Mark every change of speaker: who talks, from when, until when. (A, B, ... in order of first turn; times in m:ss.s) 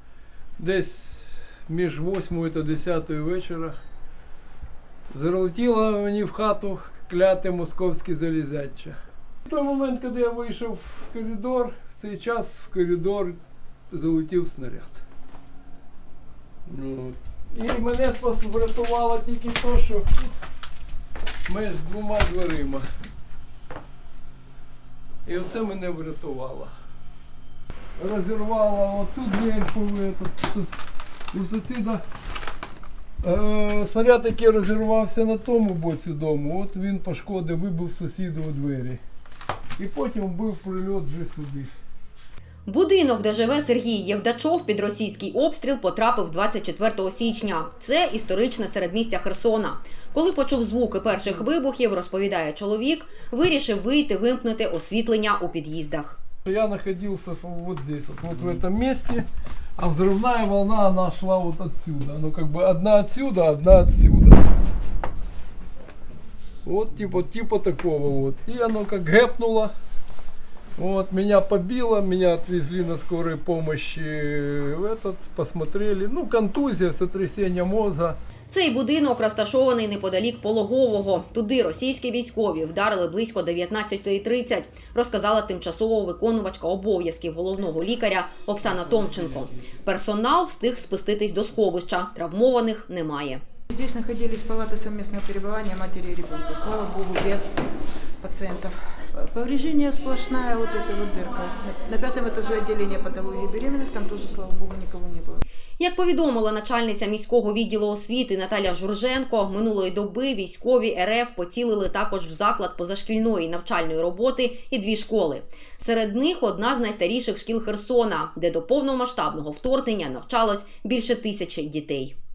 0:00.6-0:03.8 A
0:05.1-0:13.4 A
0:13.9-0:15.0 A
0:16.7-0:20.3 A
0:21.4-0:22.8 A
0:25.2-0:26.7 A
0:28.0-0:30.7 A
0:31.3-0:32.0 A
0:33.2-0:39.0 A
0:39.8-0:41.7 A
0:42.7-0:56.2 B
0:56.5-0:59.2 A
0:59.8-1:04.4 A
1:06.6-1:09.7 A
1:10.8-1:18.2 A
1:18.5-1:33.4 B
1:33.7-1:37.6 C
1:38.2-1:45.4 C
1:45.8-2:02.1 B